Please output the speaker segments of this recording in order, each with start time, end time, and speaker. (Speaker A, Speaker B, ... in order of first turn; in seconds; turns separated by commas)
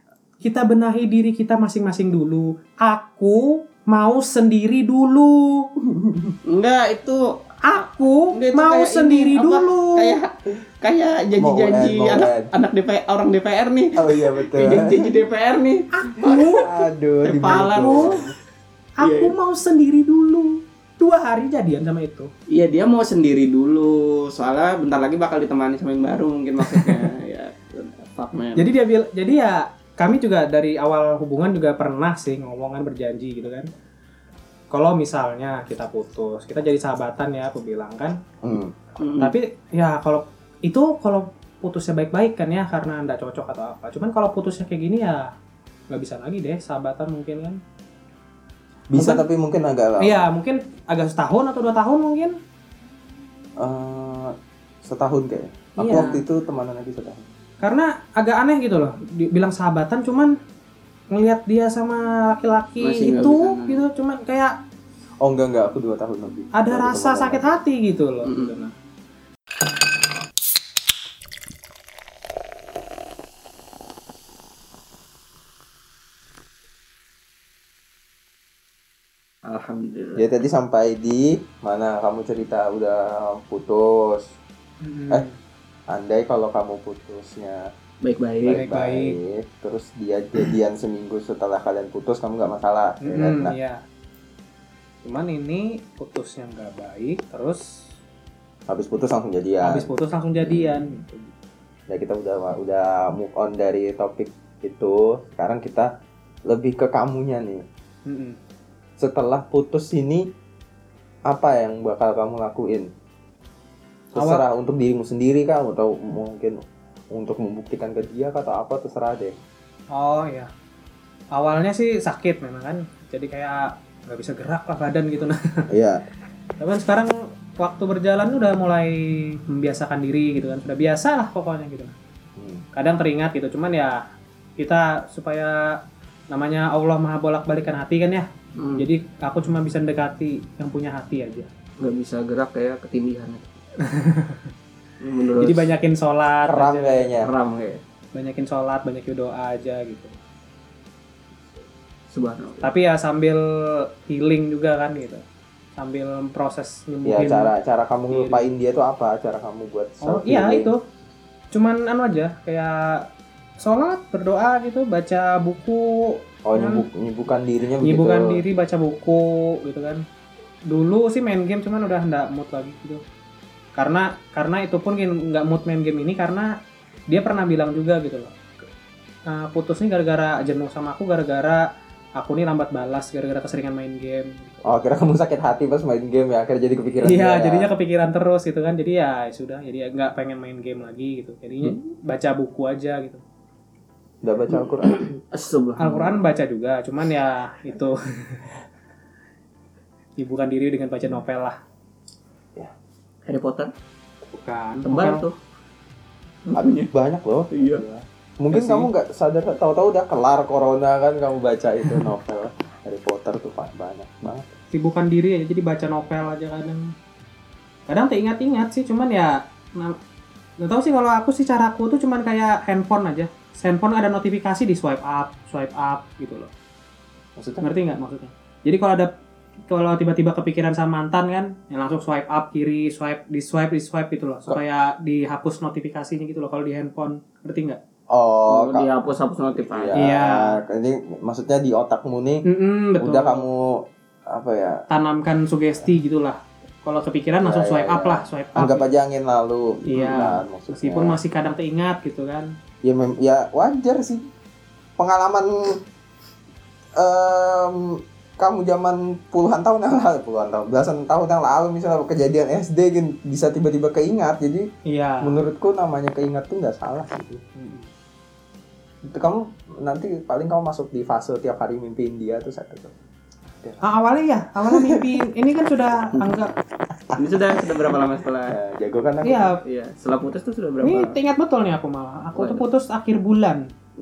Speaker A: 0.4-5.7, Speaker B: 5.8-6.3, Speaker C: 6.5-7.2, Speaker A: 7.6-10.2, Speaker C: 8.3-16.7, Speaker B: 11.4-12.5, Speaker B: 13.9-15.1, Speaker A: 16.0-16.7, Speaker B: 16.6-18.3, Speaker C: 17.2-18.2, Speaker A: 17.5-18.2, Speaker A: 19.0-22.3, Speaker C: 19.0-19.3, Speaker C: 22.5-28.7, Speaker A: 26.6-27.1, Speaker A: 28.6-33.7, Speaker A: 34.7-38.2, Speaker B: 38.4-38.8, Speaker C: 39.0-39.3, Speaker A: 39.2-45.3, Speaker A: 45.9-47.6, Speaker B: 48.9-50.2, Speaker A: 48.9-49.2, Speaker A: 50.0-52.4, Speaker B: 53.6-57.2, Speaker A: 55.8-56.2, Speaker A: 57.6-60.3, Speaker A: 61.1-64.5, Speaker C: 62.8-63.8, Speaker B: 65.2-67.5, Speaker A: 66.5-68.7, Speaker C: 68.2-68.7, Speaker C: 79.4-80.2, Speaker B: 80.2-84.3, Speaker A: 84.8-85.3, Speaker B: 85.9-87.7, Speaker C: 88.0-88.6, Speaker B: 88.4-93.5, Speaker A: 88.5-89.2, Speaker A: 93.0-93.8, Speaker A: 95.0-97.8, Speaker B: 98.7-99.8, Speaker A: 99.6-101.3, Speaker B: 100.4-100.8, Speaker B: 101.9-105.9, Speaker B: 106.5-107.7, Speaker A: 108.0-108.4, Speaker B: 109.0-110.3, Speaker B: 111.3-112.9, Speaker B: 114.1-116.6, Speaker A: 114.2-114.4, Speaker B: 117.1-119.4, Speaker A: 119.9-120.5, Speaker A: 121.3-125.7, Speaker B: 125.7-126.0, Speaker A: 126.6-131.9, Speaker B: 132.4-132.6, Speaker A: 132.7-134.0, Speaker A: 134.6-141.5, Speaker C: 138.6-138.8, Speaker C: 141.8-143.5, Speaker A: 143.8-144.5, Speaker C: 145.0-145.7, Speaker A: 145.4-147.2, Speaker B: 146.5-147.3, Speaker C: 147.2-147.8, Speaker A: 148.1-150.1, Speaker C: 152.1-152.7, Speaker A: 152.6-155.2, Speaker A: 155.8-157.5, Speaker B: 157.0-160.7, Speaker A: 158.1-158.5, Speaker A: 160.0-160.8, Speaker A: 161.5-163.1, Speaker A: 163.6-166.8, Speaker B: 166.4-168.4, Speaker A: 167.8-170.0, Speaker A: 170.7-173.0, Speaker A: 173.8-176.5, Speaker A: 177.1-178.4, Speaker A: 179.3-184.6, Speaker B: 184.6-187.7, Speaker A: 187.0-193.2, Speaker B: 194.2-195.1, Speaker C: 194.8-196.2, Speaker A: 195.8-198.4, Speaker A: 200.2-201.6, Speaker C: 203.2-203.7, Speaker A: 204.3-205.2, Speaker C: 204.8-205.3, Speaker C: 206.5-206.9, Speaker B: 206.5-214.5, Speaker C: 207.5-207.8, Speaker A: 214.7-216.9, Speaker A: 217.9-220.0, Speaker A: 220.6-226.5, Speaker B: 227.4-227.7, Speaker A: 227.6-229.1, Speaker A: 229.7-237.8, Speaker B: 238.1-238.9, Speaker C: 238.5-240.0, Speaker B: 239.6-242.4, Speaker A: 239.9-240.6, Speaker A: 242.4-243.4, Speaker B: 243.0-244.8, Speaker A: 244.9-248.8, Speaker B: 247.4-251.2, Speaker A: 249.9-252.5, Speaker B: 252.8-254.2, Speaker B: 255.0-255.8, Speaker B: 257.0-264.7, Speaker A: 264.9-265.3, Speaker B: 265.2-267.4, Speaker A: 267.6-267.9, Speaker B: 269.0-273.0, Speaker A: 273.8-276.5, Speaker B: 274.6-275.1, Speaker B: 277.1-277.9, Speaker C: 277.1-278.6, Speaker B: 278.5-279.5, Speaker A: 279.2-279.6, Speaker C: 279.6-281.1, Speaker A: 280.8-283.7, Speaker C: 282.4-282.6